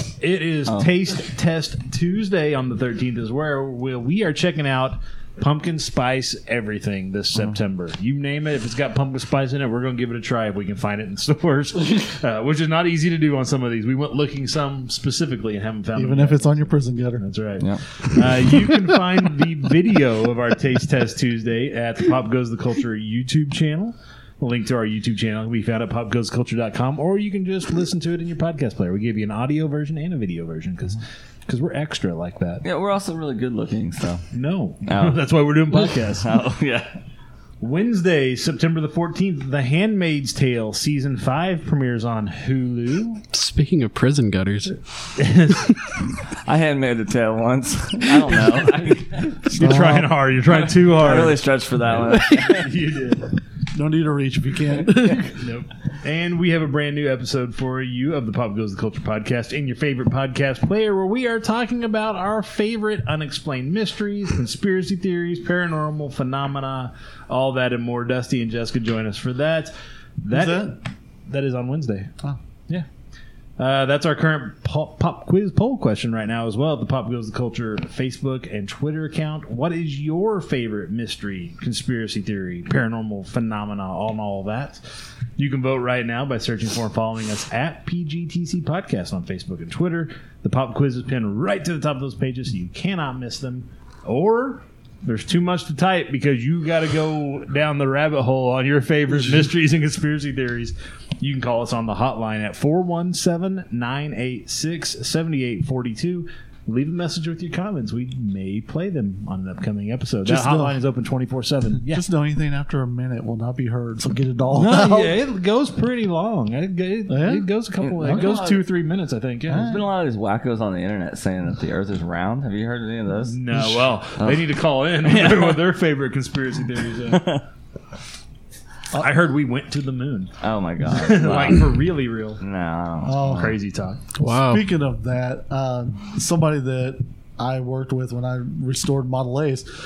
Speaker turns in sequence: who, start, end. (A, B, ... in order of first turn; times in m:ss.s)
0:00.2-0:32.6 A
0:15.9-0:17.2 B
0:32.6-0:34.2 C
0:34.3-0:36.3 A
0:34.8-0:35.2 C
0:36.0-0:36.9 C
0:37.6-0:43.2 A
0:43.3-0:44.8 D
0:45.2-0:45.7 A
0:46.4-0:49.5 C
0:49.5-0:50.1 B
0:49.5-0:53.4 A
0:50.5-0:52.7 C
0:53.7-0:55.5 B
0:55.4-1:12.1 A
1:10.3-1:10.7 B
1:13.6-1:24.8 A
1:25.4-1:52.0 A
1:50.2-1:50.8 B
1:51.9-1:55.2 B
1:54.5-1:59.7 A
1:57.1-1:57.5 B
1:57.8-1:58.7 C
1:58.0-1:58.3 B
1:59.5-1:59.9 B
1:59.5-2:03.4 C
2:03.2-2:07.2 A
2:03.6-2:03.9 B
2:04.2-2:04.5 C
2:05.0-2:05.6 C
2:07.1-2:07.4 C
2:08.9-2:10.3 A
2:10.4-2:11.8 C
2:10.9-2:12.4 A
2:12.4-2:13.6 C
2:13.0-2:13.6 B
2:13.4-2:14.0 A
2:14.2-2:14.7 D
2:14.2-2:19.7 B